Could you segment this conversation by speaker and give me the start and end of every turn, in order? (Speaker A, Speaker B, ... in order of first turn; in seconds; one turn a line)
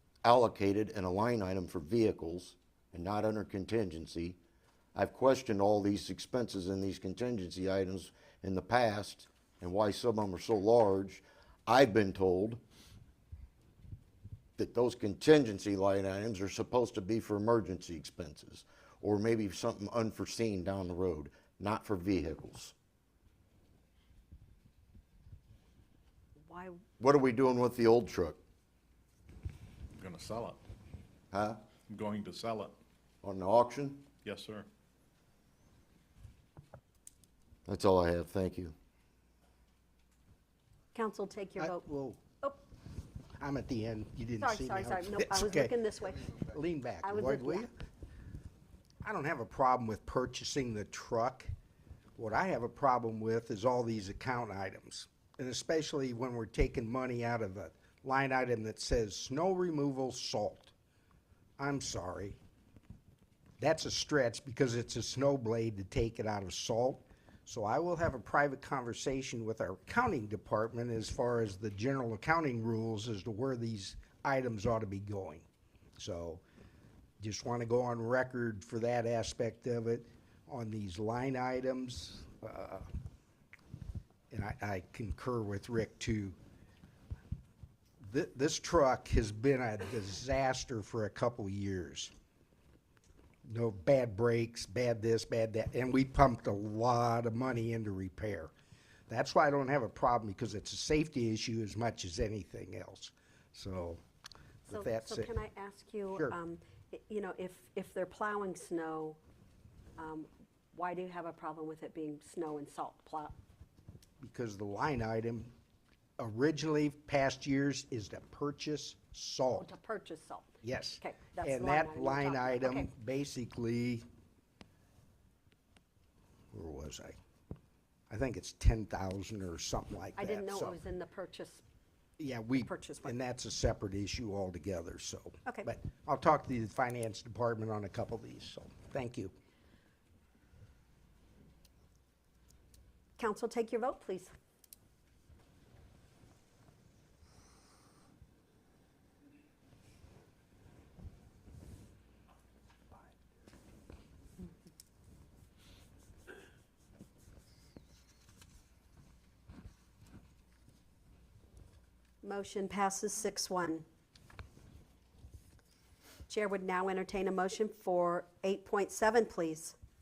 Speaker A: 0.2-4.4
Speaker A: 4.9-12.6
Speaker A: 14.6-22.7
Speaker B: 26.5-26.8
Speaker A: 27.0-28.4
Speaker C: 29.9-30.6
Speaker A: 31.3-31.6
Speaker C: 31.9-32.7
Speaker A: 33.2-34.0
Speaker C: 34.2-34.7
Speaker A: 37.7-38.7
Speaker B: 40.9-41.8
Speaker D: 41.6-42.2
Speaker D: 43.4-47.7
Speaker B: 44.4-46.3
Speaker B: 47.0-47.7
Speaker D: 49.0-51.5
Speaker D: 52.2-60.7
Speaker D: 61.6-62.4
Speaker D: 63.6-75.5
Speaker D: 76.0-76.4
Speaker D: 77.2-82.8
Speaker D: 84.3-86.4
Speaker D: 88.0-92.1
Speaker D: 93.4-98.5
Speaker D: 99.1-104.0
Speaker D: 104.7-105.3
Speaker B: 104.7-109.2
Speaker B: 110.0-113.3
Speaker D: 114.2-115.5
Speaker D: 116.2-119.7
Speaker B: 119.5-122.9
Speaker D: 120.6-124.0
Speaker D: 126.5-127.2
Speaker D: 128.1-130.8
Speaker B: 130.2-131.6
Speaker D: 132.2-139.3
Speaker B: 132.6-133.1
Speaker B: 143.2-144.3
Speaker B: 162.2-163.8
Speaker B: 166.3-169.7